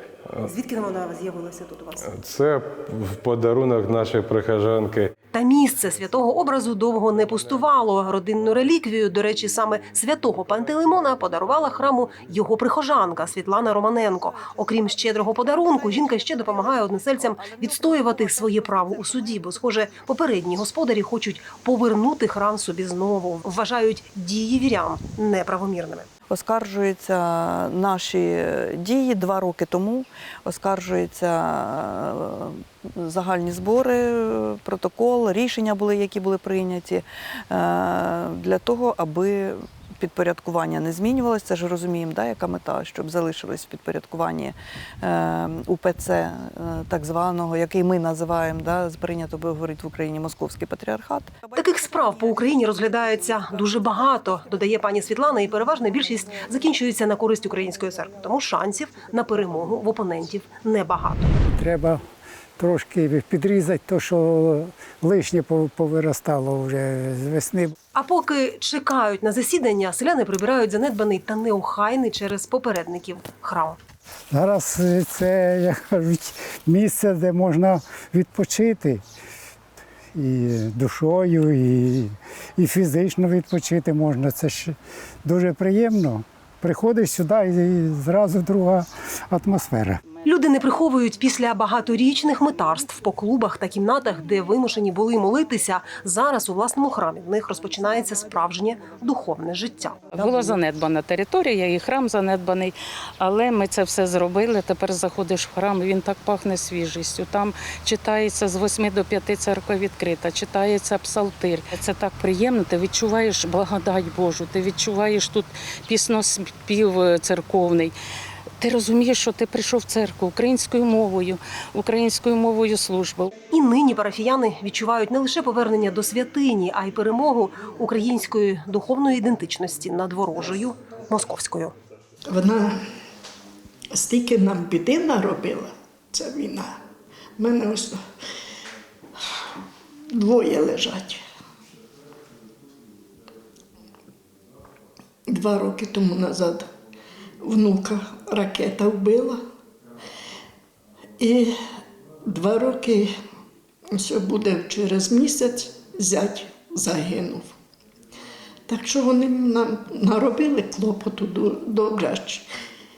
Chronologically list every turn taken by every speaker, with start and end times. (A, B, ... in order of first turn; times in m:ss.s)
0:00.4-0:02.1 A
0:02.0-0:05.1 B
0:05.3-0:26.0 A
0:26.3-0:51.5 C
0:51.6-1:01.4 A
1:01.5-1:02.0 D
1:02.6-1:07.7 D
1:07.9-1:13.8 A
1:14.3-1:19.0 D
1:20.1-1:30.0 D
1:30.2-1:40.3 A
1:40.2-1:58.0 E
1:58.6-2:03.3 E
2:03.5-2:11.7 A
2:12.2-2:12.8 F
2:13.9-2:16.8 F
2:17.4-2:18.0 F
2:20.1-2:21.2 F
2:25.3-2:26.7 F
2:27.4-2:29.4 F
2:31.2-2:31.6 F
2:32.2-2:33.1 F
2:33.9-2:37.5 F
2:38.7-2:42.5 F